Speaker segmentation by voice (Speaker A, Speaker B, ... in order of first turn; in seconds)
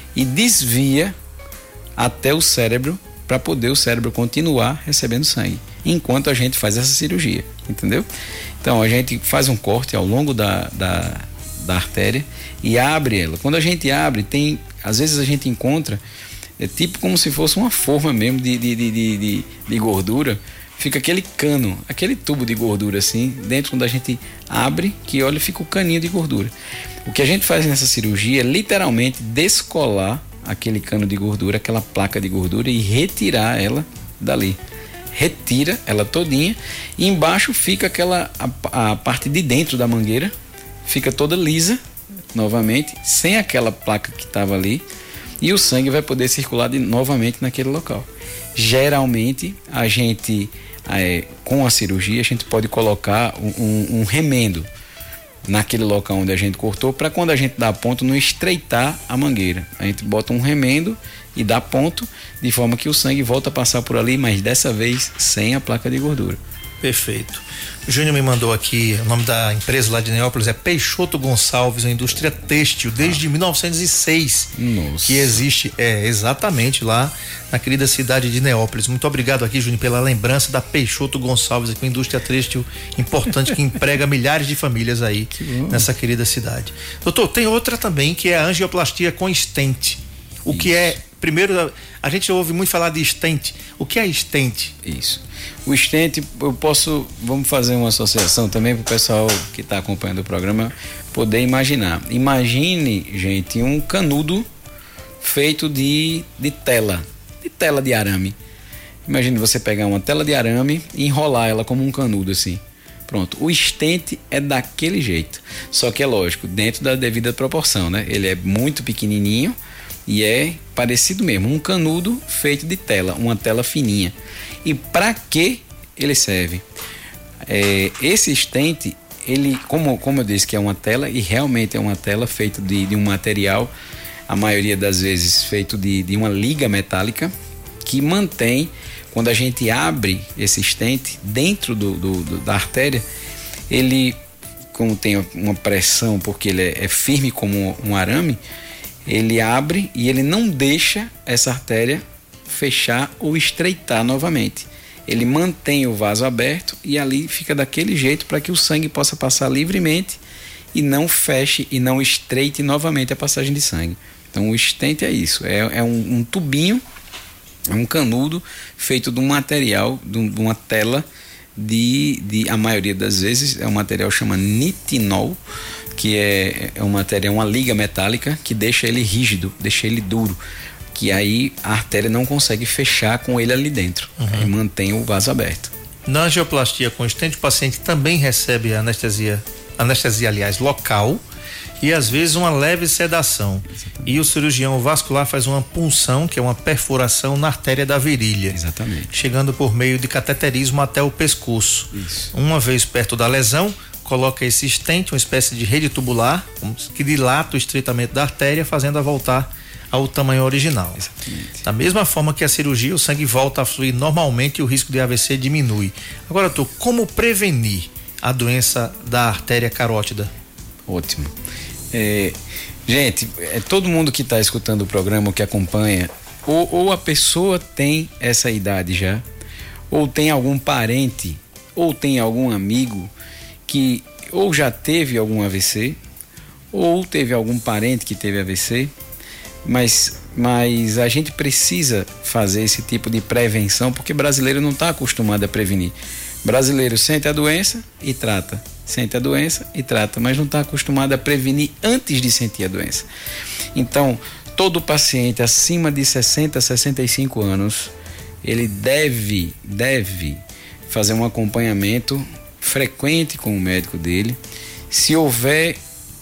Speaker A: 0.1-1.1, 2.0-8.1, 8.6-16.0, 16.6-26.5, 27.1-34.6, 35.1-40.3, 40.9-41.8, 42.3-44.9, 45.4-54.7, 55.5-66.4, 74.6-75.4, 85.3-85.9, 90.5-91.0, 94.8-104.5, 105.2-108.4, 109.1-126.7, 127.5-133.7, 134.3-143.1, 143.7-144.2, 144.7-148.4, 149.1-160.2, 160.7-166.8, 167.7-171.1, 171.6-175.4, 175.9-180.4, 180.9-185.7, 193.7-194.2, 198.5-199.1, 201.9-202.3, 211.0-211.7, 220.9-221.3, 221.9-229.2, 229.9-233.1, 233.7-236.0, 236.7-238.9, 239.6-253.1, 253.8-257.9, 258.4-264.4, 264.9-265.8
Speaker B: 66.8-74.5, 75.0-94.7, 184.2-184.5, 186.1-191.2, 191.8-198.6, 199.1-211.0, 211.7-220.3